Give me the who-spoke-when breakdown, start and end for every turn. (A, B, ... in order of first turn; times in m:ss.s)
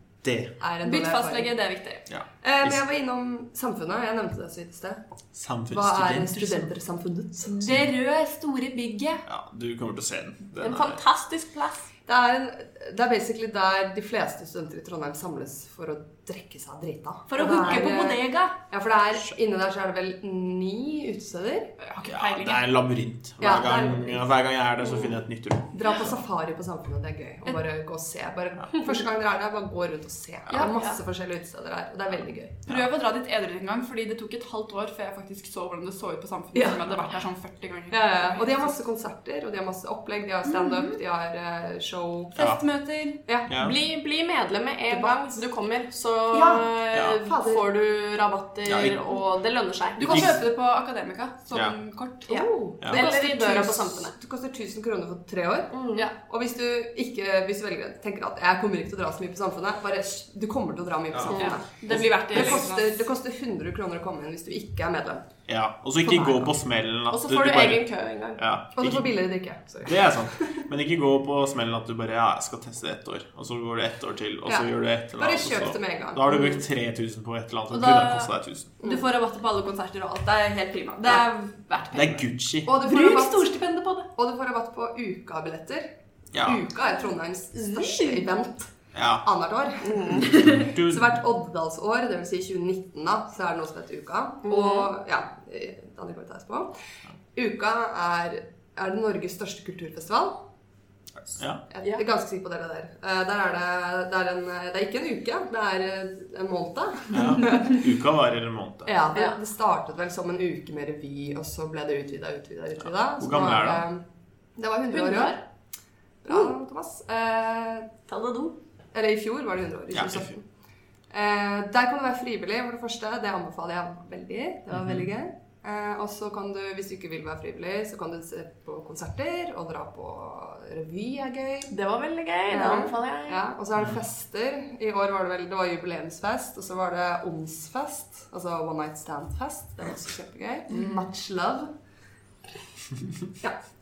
0:00.2-0:00.5 A
0:00.6-0:01.5 B
0:00.8-0:02.1 C
0:02.1-0:02.8 A
0:02.4-0:05.0 B
0:05.3-0:06.7 A
0:05.7-0:07.6 B
0:07.4-0:09.2 C
0:09.3-0:11.0 A
0:10.6-0:11.9 D
0:12.1-0:21.8 B
0:17.3-0:18.6 C
0:21.8-0:22.7 C
0:22.0-0:26.2 A
0:23.4-0:24.2 B
0:25.7-0:32.6 B
0:30.6-0:30.9 D
0:32.6-0:38.7 C
0:36.5-0:37.0 B
0:37.9-0:42.4 B
0:40.4-0:41.0 C
0:42.4-0:43.2 C
0:43.2-0:43.5 B
0:43.5-0:43.8 A
0:43.5-0:50.0 D
0:44.9-0:45.4 B
0:46.3-0:47.7 B
0:46.9-0:47.2 A
0:48.6-0:49.0 A
0:50.0-0:53.8 C
0:50.0-0:50.3 B
0:50.1-0:50.4 A
0:52.3-1:05.2 B
0:52.9-0:54.1 D
0:55.7-0:56.1 D
1:01.1-1:02.0 A
1:01.3-1:02.9 C
1:05.5-1:09.1 A
1:06.0-1:06.5 B
1:07.1-1:08.4 D
1:08.7-1:10.6 B
1:09.8-1:18.7 A
1:14.4-1:16.5 B
1:17.8-1:18.2 D
1:18.8-1:24.1 C
1:21.9-1:22.7 A
1:22.6-1:23.5 B
1:24.1-1:36.7 B
1:26.3-1:26.6 A
1:27.6-1:28.2 D
1:28.9-1:29.2 A
1:29.8-1:30.3 D
1:30.2-1:31.2 A
1:34.4-1:34.9 D
1:37.4-1:40.4 B
1:41.3-1:41.6 A
1:41.7-1:47.8 B
1:47.1-1:49.0 A
1:48.8-1:54.0 B
1:53.2-1:53.9 A
1:54.6-1:55.4 B
1:54.9-1:55.4 D
1:56.2-1:57.9 B
1:58.1-1:58.6 D
1:58.9-2:00.4 B
1:59.9-2:00.3 A
2:01.1-2:11.7 B
2:04.7-2:05.0 A
2:11.7-2:13.4 D
2:12.5-2:21.7 B